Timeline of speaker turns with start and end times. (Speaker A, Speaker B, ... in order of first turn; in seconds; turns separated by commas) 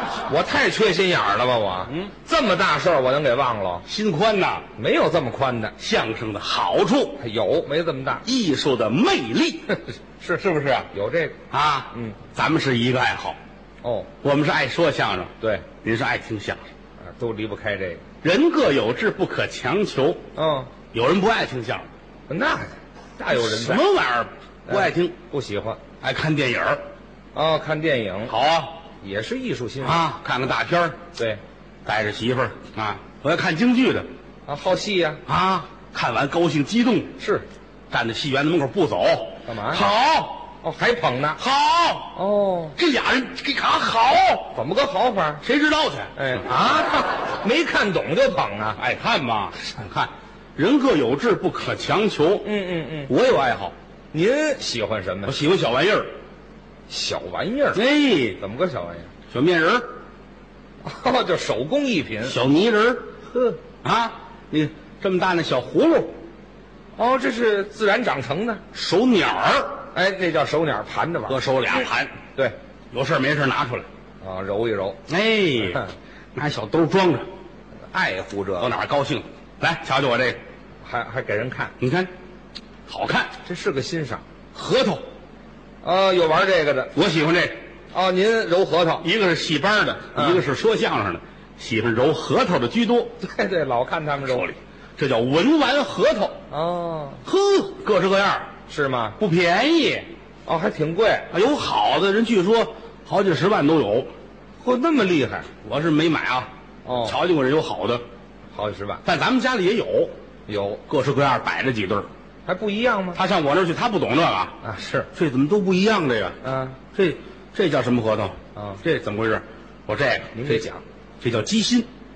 Speaker A: 0.3-3.9, Speaker B: 3.9-4.7, Speaker A: 4.8-5.8, Speaker B: 5.8-7.2, Speaker A: 7.2-8.2, Speaker B: 8.2-9.8, Speaker A: 10.1-11.4, Speaker B: 11.5-13.4, Speaker A: 13.8-14.1, Speaker B: 14.2-16.6, Speaker A: 15.4-15.7, Speaker A: 17.0-18.1, Speaker B: 18.2-20.2, Speaker A: 20.4-20.7, Speaker B: 20.9-21.9, Speaker A: 22.3-23.9, Speaker B: 23.3-25.1, Speaker A: 24.7-25.8, Speaker B: 26.0-26.8, Speaker A: 27.3-28.4, Speaker B: 28.3-28.8, Speaker A: 29.0-30.1, Speaker B: 29.8-31.0, Speaker A: 31.1-31.4, Speaker B: 31.9-34.1, Speaker A: 34.5-35.2, Speaker B: 35.3-37.1, Speaker A: 37.2-37.5, Speaker B: 37.9-40.5, Speaker A: 39.5-39.9, Speaker A: 40.6-41.4, Speaker B: 41.4-42.2, Speaker A: 42.1-42.8, Speaker B: 42.8-44.5, Speaker A: 44.5-45.4, Speaker B: 45.4-46.4, Speaker A: 46.1-48.8, Speaker B: 48.8-52.5, Speaker A: 52.4-53.1, Speaker B: 53.1-53.7, Speaker A: 54.1-55.4, Speaker B: 55.3-56.1, Speaker A: 56.9-57.8, Speaker B: 57.7-58.4, Speaker A: 58.4-59.1, Speaker B: 59.3-59.9, Speaker A: 60.8-62.4, Speaker B: 62.2-63.1, Speaker A: 63.3-63.6, Speaker B: 63.8-66.2, Speaker A: 67.0-68.6, Speaker B: 68.7-69.8, Speaker A: 69.9-72.5, Speaker B: 71.3-72.2, Speaker B: 72.9-73.9, Speaker A: 74.2-75.0, Speaker B: 75.1-77.3, Speaker A: 77.9-78.7, Speaker B: 78.6-80.4, Speaker A: 80.8-81.7, Speaker B: 81.8-82.1, Speaker B: 82.9-83.4, Speaker A: 83.4-84.2, Speaker B: 84.5-85.0, Speaker A: 85.8-86.9, Speaker B: 86.9-87.6, Speaker A: 87.9-89.1, Speaker B: 89.0-93.1, Speaker A: 90.1-90.4, Speaker A: 93.2-94.6, Speaker B: 95.0-96.4, Speaker A: 96.5-97.2, Speaker B: 97.2-98.5, Speaker A: 98.7-99.2, Speaker B: 99.2-100.1, Speaker A: 100.5-101.3, Speaker B: 101.3-104.1, Speaker A: 104.6-105.5, Speaker B: 105.6-106.5, Speaker A: 106.8-107.2, Speaker B: 107.0-108.0, Speaker A: 108.5-109.0, Speaker B: 109.0-110.1, Speaker A: 110.5-110.8, Speaker B: 110.9-112.1, Speaker A: 112.5-113.2, Speaker B: 113.1-114.6, Speaker A: 114.6-115.1, Speaker B: 115.1-116.4, Speaker A: 116.4-116.8, Speaker B: 116.9-120.7, Speaker A: 118.5-118.8, Speaker A: 120.3-120.8, Speaker B: 121.2-121.9